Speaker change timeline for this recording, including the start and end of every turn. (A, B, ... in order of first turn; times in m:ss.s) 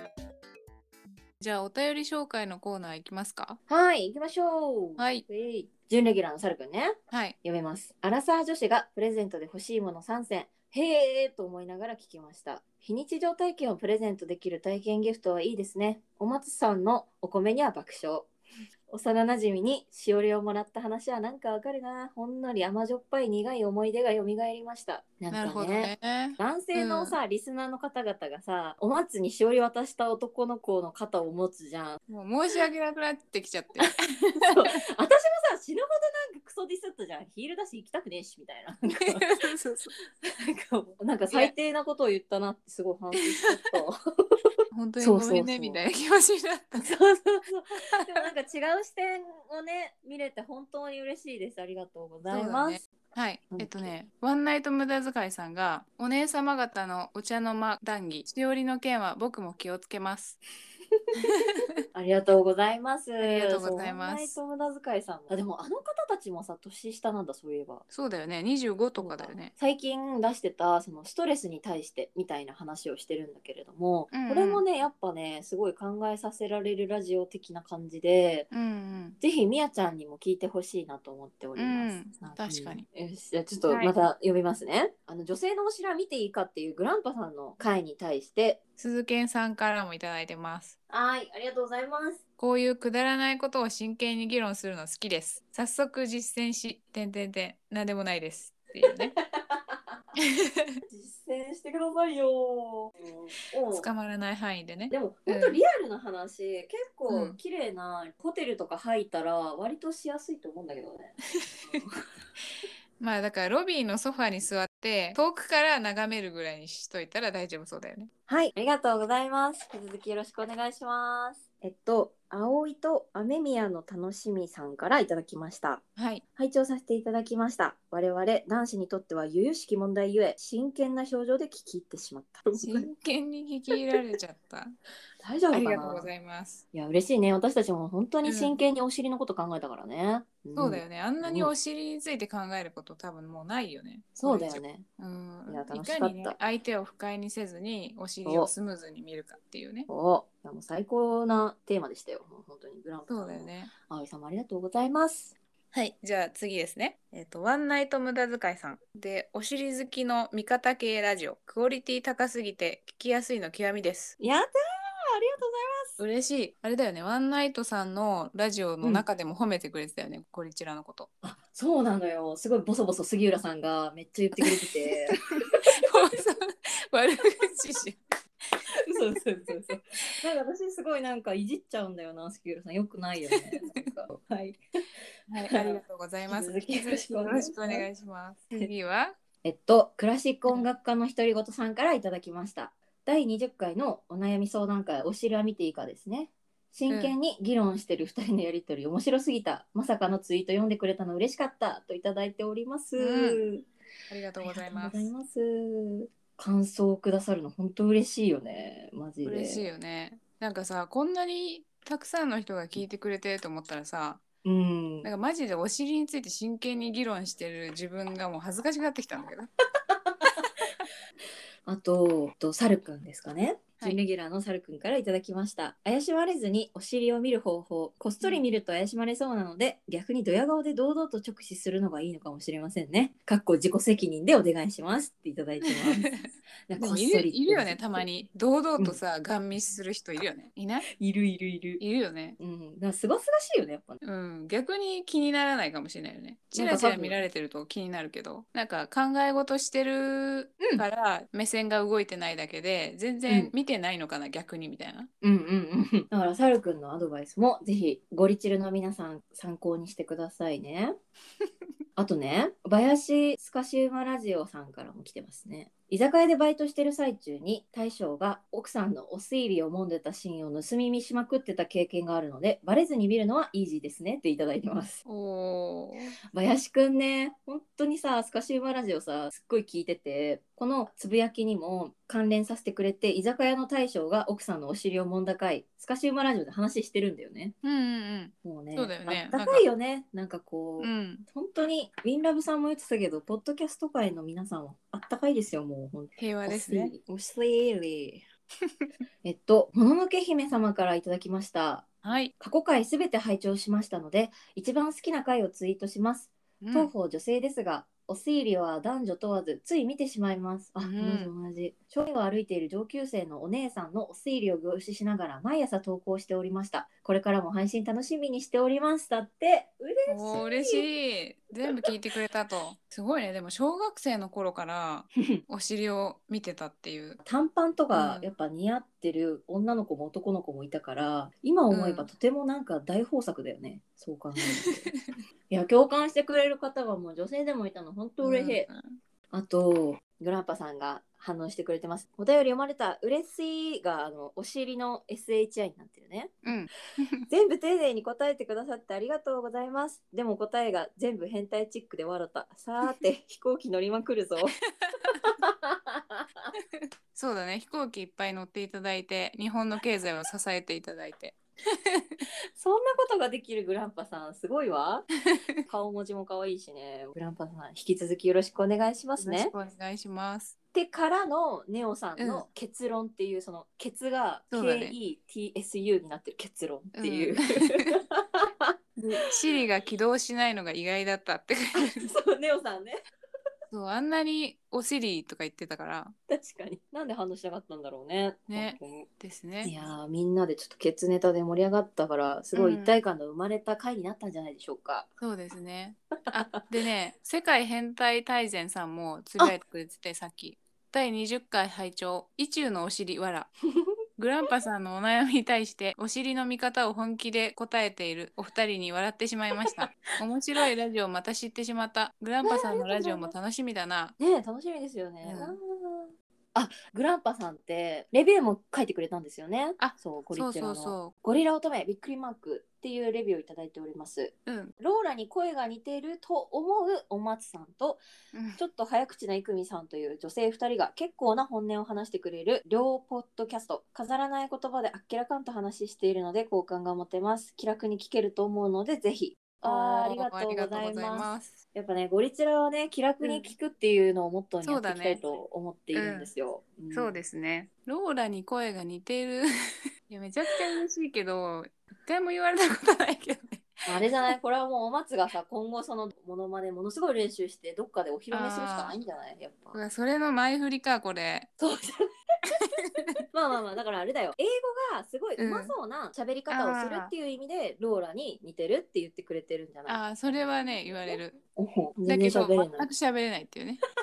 0:01.4-0:03.6 A
0:03.7-0:18.3 B
0:05.0-0:05.2 A
0:07.1-0:07.4 A
0:18.9-0:32.0 B
0:25.3-0:27.2 A
0:32.1-0:34.8 A
0:33.8-0:39.4 B
0:38.9-0:39.9 A
0:40.2-0:45.8 B
0:44.7-0:46.9 A
0:46.8-0:52.8 B
0:48.0-0:48.2 A
0:52.3-1:00.4 A
0:53.5-0:53.9 B
1:01.2-1:01.7 A
1:01.9-1:07.8 B
1:03.2-1:04.4 A
1:07.9-1:09.5 A
1:09.0-1:18.5 B
1:14.1-1:14.6 A
1:18.5-1:19.2 A
1:19.2-1:28.6 B
1:21.6-1:22.8 A
1:23.7-1:23.9 A
1:28.8-1:30.8 A
1:30.9-1:32.2 B
1:32.4-1:39.2 A
1:38.9-1:40.0 B
1:40.2-1:40.8 A
1:40.9-1:43.9 B
1:43.7-1:45.6 A
1:44.9-1:52.0 B
1:47.1-1:47.4 A
1:51.4-1:51.8 A
1:53.0-1:58.1 A
1:58.3-2:05.8 B
2:06.0-2:06.2 A
2:06.4-2:12.9 B
2:12.5-2:14.8 A
2:15.2-2:16.1 B
2:15.5-2:16.6 A
2:16.7-2:21.5 B
2:18.2-2:18.6 A
2:20.6-2:29.9 A
2:24.2-2:24.9 B
2:25.5-2:26.4 B
2:28.2-2:28.5 B
2:29.9-2:35.4 B
2:33.1-2:33.7 A
2:35.7-2:44.2 A
2:44.2-2:44.5 B
2:45.1-2:46.0 B
2:46.0-2:51.1 A
2:51.2-2:55.2 B
2:54.4-2:58.0 A
2:58.8-3:04.6 B
3:03.3-3:04.0 A
3:05.3-3:09.2 A
3:05.5-3:07.8 B
3:09.4-3:23.7 B
3:16.9-3:17.2 A
3:23.0-3:23.4 A
3:24.1-3:25.1 A
3:24.4-3:29.6 B
3:29.2-3:34.2 A
3:34.4-3:35.1 B
3:35.0-3:39.5 A
3:39.9-3:40.5 B
3:41.6-3:56.1 B
3:55.7-4:00.9 A
3:56.7-3:58.0 B
4:00.9-4:01.8 B
4:01.8-4:02.4 A
4:02.4-4:04.0 B
4:04.0-4:15.1 A
4:06.5-4:07.2 B
4:13.3-4:13.5 B
4:15.2-4:21.0 B
4:22.0-4:35.0 B
4:35.1-4:36.2 A
4:36.3-4:47.6 B
4:47.6-4:49.7 A
4:48.4-4:58.2 B
4:50.8-4:51.3 A
4:56.2-4:57.0 A
4:59.2-5:20.9 B
5:02.0-5:02.3 A
5:06.6-5:06.9 A
5:10.8-5:11.3 A
5:20.1-5:27.2 A
5:27.2-5:34.9 B
5:27.9-5:28.3 A
5:31.7-5:32.1 A
5:34.4-5:35.0 A
5:35.5-5:38.7 B
5:38.2-5:39.0 A
5:39.3-5:46.4 B
5:46.4-5:47.2 A
5:47.3-5:54.6 B
5:54.8-5:55.3 A
5:55.2-5:56.5 B
5:56.8-6:02.2 A
6:02.6-6:05.1 B
6:05.7-6:09.5 B
6:09.2-6:10.6 A
6:10.7-6:18.7 B
6:12.2-6:12.5 A
6:14.5-6:15.0 A
6:17.0-6:18.0 A
6:19.0-6:22.1 A
6:21.8-6:23.0 B
6:23.7-6:26.2 A
6:26.3-6:29.1 B
6:28.5-6:29.8 A
6:29.6-6:35.1 B
6:32.6-6:33.0 A
6:35.2-6:43.5 A
6:44.2-6:54.2 A
6:52.4-6:53.3 B
6:54.2-7:08.0 B
6:55.2-6:55.6 A
6:59.8-7:01.1 A
7:04.5-7:04.7 A
7:08.3-7:08.6 A
7:08.6-7:27.2 B
7:19.6-7:21.6 A
7:23.2-7:23.5 A
7:24.6-7:25.2 A
7:25.9-7:26.3 A
7:26.9-7:29.5 A
7:30.1-7:33.8 A
7:33.9-7:39.8 B
7:38.3-7:39.0 A
7:39.7-7:41.5 A
7:41.6-7:42.1 B
7:42.5-7:43.2 A
7:43.3-7:50.5 B
7:45.4-7:45.7 A
7:46.5-7:47.1 A
7:49.9-7:51.4 A
7:51.6-7:52.9 B
7:52.1-7:53.8 A